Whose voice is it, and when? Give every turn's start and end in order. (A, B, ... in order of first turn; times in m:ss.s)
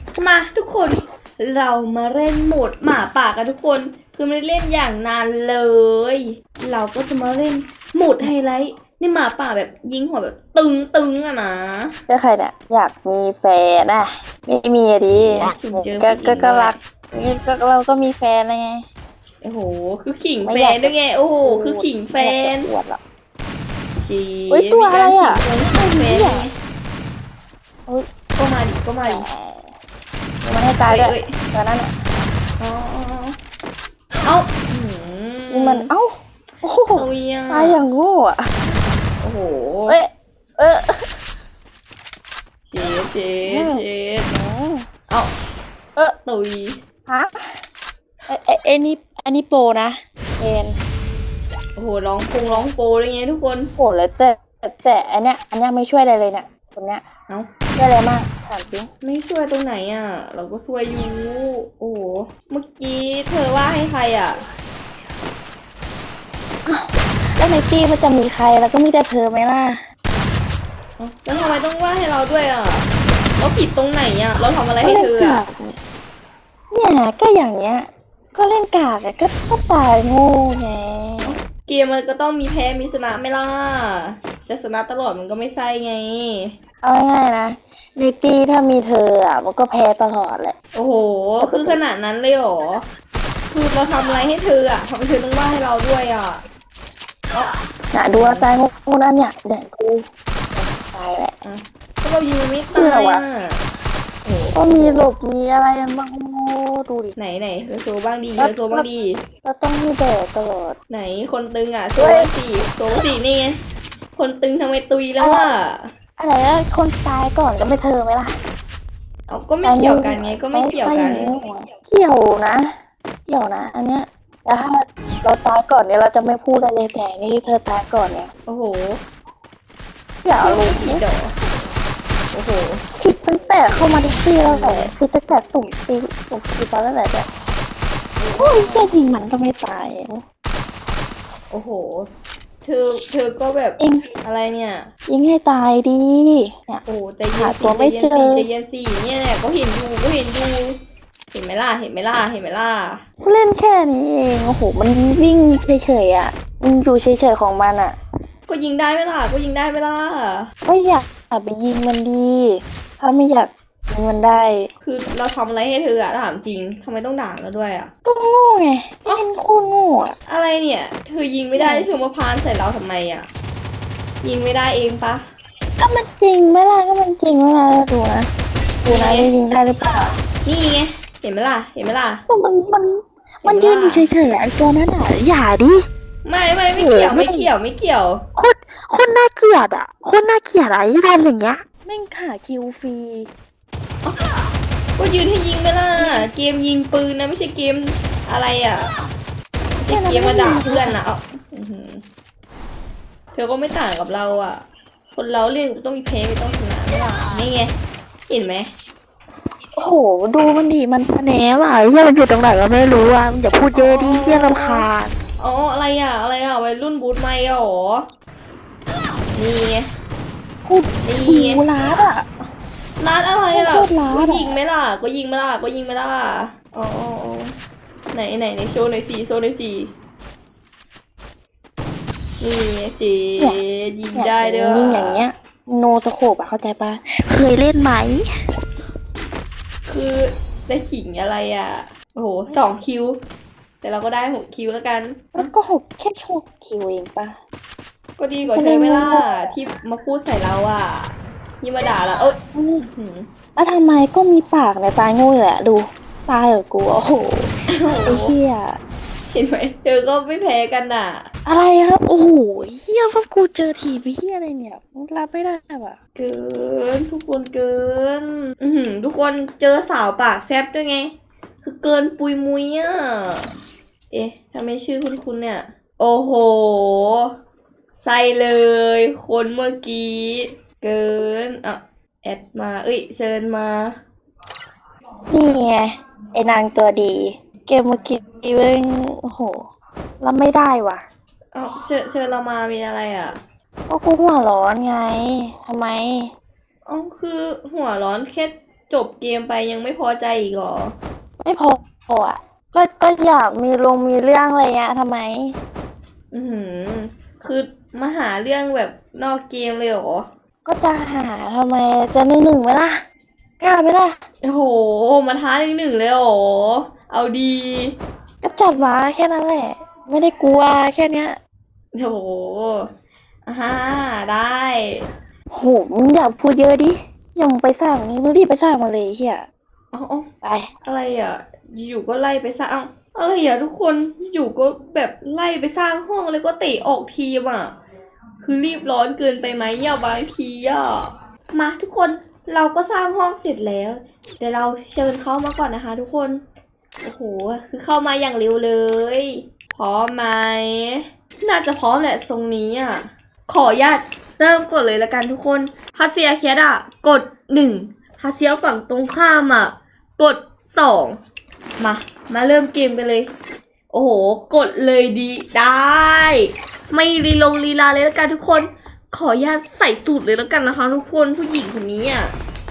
0:00.2-0:12.0 A
0:12.1-0:18.8 B
0:15.3-0:16.7 A
0:19.4-0:22.7 A
0:20.4-0:23.0 B
0:24.0-0:26.5 A
0:24.5-0:26.5 B
0:28.4-0:29.2 A
0:29.0-0:29.7 B
0:30.4-0:32.0 B
0:30.9-0:31.4 A
0:32.6-0:33.4 A
0:34.2-0:35.9 A
0:35.5-0:38.5 B
0:37.0-0:37.8 A
0:39.2-0:40.0 A
0:39.9-0:41.2 B
0:42.7-0:44.3 A
0:43.4-0:44.9 B
0:46.2-0:46.8 A
0:47.1-0:47.6 B
0:48.3-0:50.8 B
0:51.8-0:53.7 A
0:53.8-0:57.0 B
0:57.7-0:58.9 B
0:59.0-1:04.4 A
1:06.7-1:09.8 B
1:11.0-1:12.9 A
1:13.4-1:15.4 A
1:14.8-1:15.8 B
1:16.7-1:21.4 B
1:21.2-1:26.6 A
1:26.8-1:30.6 B
1:30.7-1:32.8 A
1:31.4-1:31.8 B
1:33.5-1:36.4 A
1:37.9-1:41.3 B
1:38.1-1:38.5 A
1:41.4-1:43.6 A
1:42.8-1:43.2 B
1:44.2-1:45.1 A
1:44.5-1:47.2 B
1:47.2-1:49.2 A
1:48.4-1:48.9 B
1:49.4-1:50.8 B
1:50.9-1:53.6 A
1:52.0-1:52.3 B
1:54.2-1:55.9 A
1:55.2-1:55.6 B
1:56.2-1:58.4 B
1:59.3-2:01.3 A
1:59.6-2:02.7 B
2:03.3-2:08.3 B
2:08.4-2:09.0 A
2:10.2-2:11.0 B
2:10.4-2:11.3 A
2:12.3-2:12.8 A
2:13.0-2:17.3 B
2:14.4-2:14.9 A
2:18.2-2:18.9 A
2:18.4-2:20.2 B
2:21.5-2:22.1 A
2:22.6-2:24.9 A
2:23.8-2:24.1 B
2:25.1-2:28.4 B
2:26.8-2:30.8 A
2:31.3-2:33.0 A
2:33.2-2:38.0 B
2:38.5-2:40.5 A
2:40.7-2:44.7 B
2:44.8-2:47.9 A
2:48.0-2:50.2 B
2:50.2-2:53.3 A
2:51.5-2:51.9 B
2:54.2-2:55.2 A
2:55.8-2:58.3 B
2:58.8-3:00.1 B
2:58.9-2:59.3 A
3:00.4-3:02.2 A
3:02.3-3:05.8 B
3:03.4-3:04.1 A
3:06.2-3:08.2 A
3:06.7-3:07.5 B
3:08.4-3:13.3 B
3:15.0-3:18.9 A
3:16.0-3:16.3 B
3:19.8-3:22.0 A
3:19.9-3:21.0 B
3:23.3-3:27.7 A
3:28.3-3:28.7 A
3:29.8-3:35.1 B
3:33.7-3:34.8 A
3:35.4-3:38.0 A
3:39.3-3:39.9 A
3:40.6-3:42.2 B
3:41.0-3:41.6 A
3:43.0-3:47.5 A
3:43.5-3:44.6 B
3:48.1-3:49.9 A
3:52.4-3:55.2 A
3:54.1-3:58.2 B
3:59.8-4:03.2 A
4:03.8-4:05.5 A
4:05.3-4:07.4 B
4:08.2-4:13.3 A
4:08.4-4:09.5 B
4:12.5-4:12.9 B
4:13.6-4:17.5 B
4:17.7-4:18.3 A
4:18.0-4:18.8 B
4:19.3-4:21.3 A
4:21.4-4:26.0 B
4:26.2-4:31.1 A
4:31.6-4:33.5 A
4:34.1-4:37.3 A
4:37.9-4:44.0 A
4:45.3-4:49.7 B
4:50.2-4:51.1 B
4:51.5-4:53.4 A
4:53.9-4:56.3 B
4:56.8-5:00.9 A
5:01.4-5:05.6 B
5:06.3-5:10.3 A
5:10.6-5:13.0 B
5:13.6-5:14.2 B
5:14.4-5:18.0 A
5:18.4-5:21.4 B
5:21.9-5:22.9 A
5:23.4-5:25.1 A
5:25.5-5:29.5 B
5:29.9-5:30.2 A
5:30.4-5:30.7 B
5:30.8-5:37.8 A
5:38.4-5:46.4 A
5:47.0-6:01.2 A
6:01.8-6:03.3 A
6:03.9-6:12.3 A